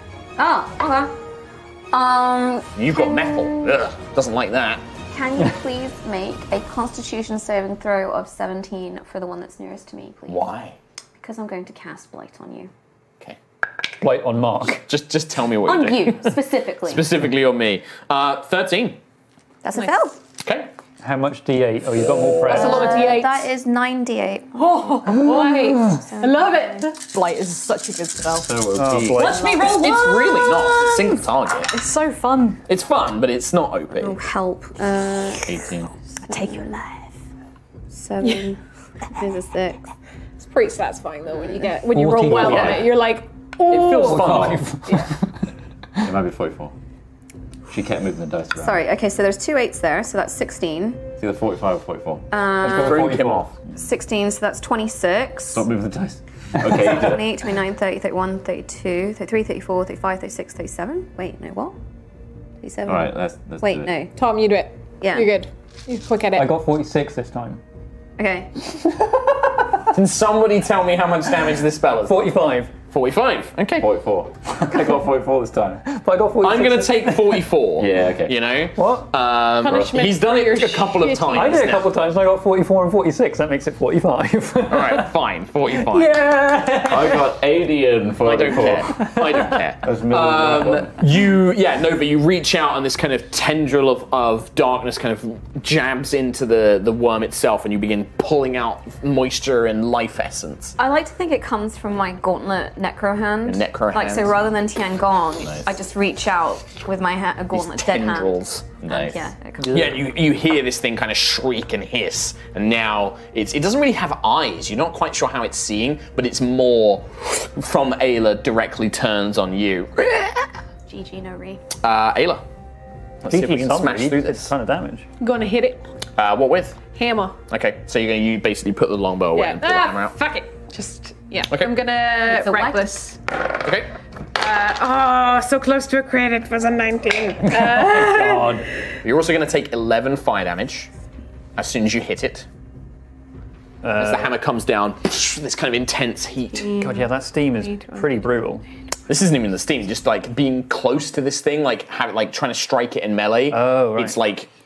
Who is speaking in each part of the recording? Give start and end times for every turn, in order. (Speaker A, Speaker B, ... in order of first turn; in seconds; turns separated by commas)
Speaker A: 0.4-1.1, Speaker A: 1.9-3.8, Speaker B: 2.8-4.8, Speaker A: 5.1-10.5, Speaker B: 10.3-10.8, Speaker A: 11.2-12.7, Speaker C: 14.0-14.8, Speaker B: 14.6-19.0, Speaker A: 15.7-17.1, Speaker A: 19.6-20.2, Speaker B: 20.4-20.7, Speaker C: 21.0-23.0, Speaker D: 21.9-22.8, Speaker E: 22.5-23.4, Speaker A: 22.5-24.8, Speaker E: 24.5-27.0, Speaker A: 26.1-26.9, Speaker F: 26.9-28.5, Speaker D: 28.4-29.4, Speaker C: 28.8-29.6, Speaker B: 29.2-31.7, Speaker F: 29.2-32.6, Speaker B: 32.7-34.2, Speaker A: 34.0-35.7, Speaker D: 35.4-35.9, Speaker A: 36.2-36.6, Speaker F: 36.3-37.1, Speaker A: 37.9-38.6, Speaker A: 39.1-39.8, Speaker E: 40.4-44.9, Speaker C: 41.9-42.9, Speaker B: 42.3-42.8, Speaker D: 42.5-42.7, Speaker B: 43.7-44.7, Speaker C: 43.9-45.2, Speaker D: 46.0-46.7, Speaker D: 47.7-48.8, Speaker A: 48.6-51.0, Speaker D: 51.2-52.3, Speaker A: 52.3-53.1, Speaker C: 52.6-53.5, Speaker B: 52.6-53.5, Speaker A: 53.7-55.6, Speaker D: 55.5-57.4, Speaker A: 56.7-61.8, Speaker A: 62.6-64.1, Speaker D: 62.8-63.9, Speaker E: 64.1-66.5, Speaker A: 65.0-65.3, Speaker C: 66.3-67.6, Speaker A: 68.2-68.6, Speaker B: 69.9-73.9, Speaker C: 72.0-72.7, Speaker D: 73.8-75.8, Speaker C: 75.8-77.5, Speaker B: 76.4-81.9, Speaker D: 77.8-78.4, Speaker C: 78.8-79.1, Speaker E: 79.6-81.8, Speaker C: 81.3-85.1, Speaker B: 84.7-86.2, Speaker C: 85.7-87.3, Speaker D: 86.8-89.1, Speaker B: 88.2-100.8, Speaker C: 89.0-89.4, Speaker D: 89.8-91.0, Speaker A: 100.8-109.9, Speaker B: 103.5-104.4, Speaker D: 105.4-105.7, Speaker B: 107.5-108.6, Speaker D: 108.8-109.3, Speaker B: 109.6-120.5, Speaker A: 120.9-121.6, Speaker B: 121.8-122.4, Speaker B: 123.2-124.5, Speaker C: 123.3-125.1, Speaker E: 125.2-125.8, Speaker B: 126.2-126.8, Speaker E: 126.8-127.4, Speaker B: 127.5-130.1, Speaker E: 129.3-133.2, Speaker A: 132.2-133.0, Speaker B: 133.6-133.9, Speaker E: 134.3-138.7, Speaker C: 137.5-138.7, Speaker B: 139.0-140.9, Speaker B: 141.6-142.5, Speaker C: 143.8-144.3, Speaker B: 143.9-146.7, Speaker E: 146.5-148.3, Speaker C: 146.8-148.6, Speaker B: 149.1-154.5, Speaker C: 153.5-154.2